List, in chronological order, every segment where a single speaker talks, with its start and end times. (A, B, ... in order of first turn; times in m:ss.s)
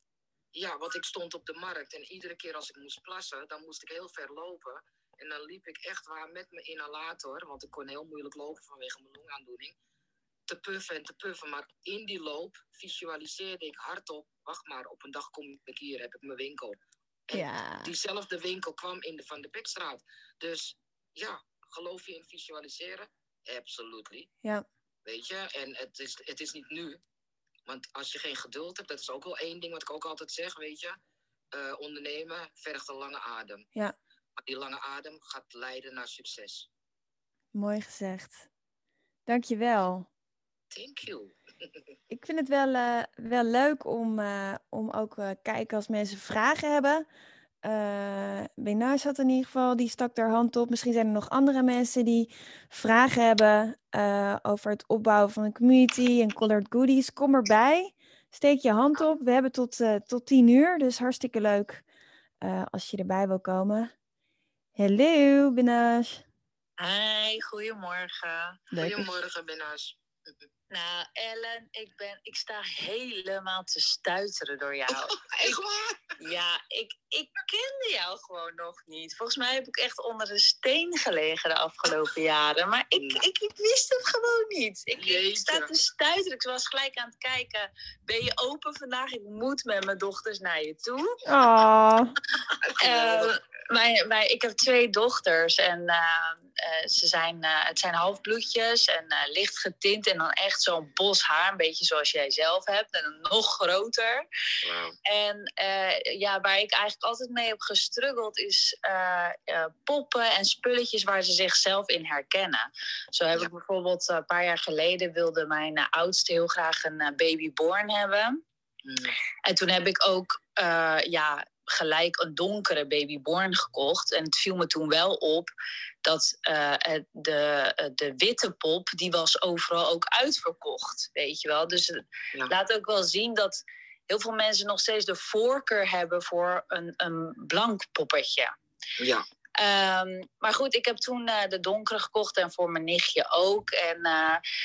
0:00.5-0:09.7 A
0:10.5-0:24.3 A
0:17.3-0:17.9 B
0:25.0-0:27.0 A
0:27.7-0:31.0 A
0:31.5-0:33.6 A
0:34.4-0:36.7 A
0:37.5-0:38.4 B
0:39.3-0:40.1 B
0:40.7-0:41.3 A
0:42.1-0:47.0 B
0:47.6-1:01.8 B
1:02.4-1:03.9 B
1:04.8-1:06.2 B
1:06.8-1:08.6 C
1:08.7-1:09.0 B
1:08.8-1:10.4 A
1:10.7-1:15.6 C
1:15.1-1:16.0 A
1:16.2-1:31.2 C
1:22.9-1:23.3 A
1:25.0-1:25.7 A
1:31.3-1:32.1 B
1:32.7-1:33.3 A
1:32.8-1:44.2 C
1:44.6-1:45.0 A
1:45.0-1:58.4 C
1:58.8-1:59.2 A
1:59.4-2:05.5 C
2:06.0-2:18.5 C
2:19.0-2:19.2 A
2:19.6-2:24.4 C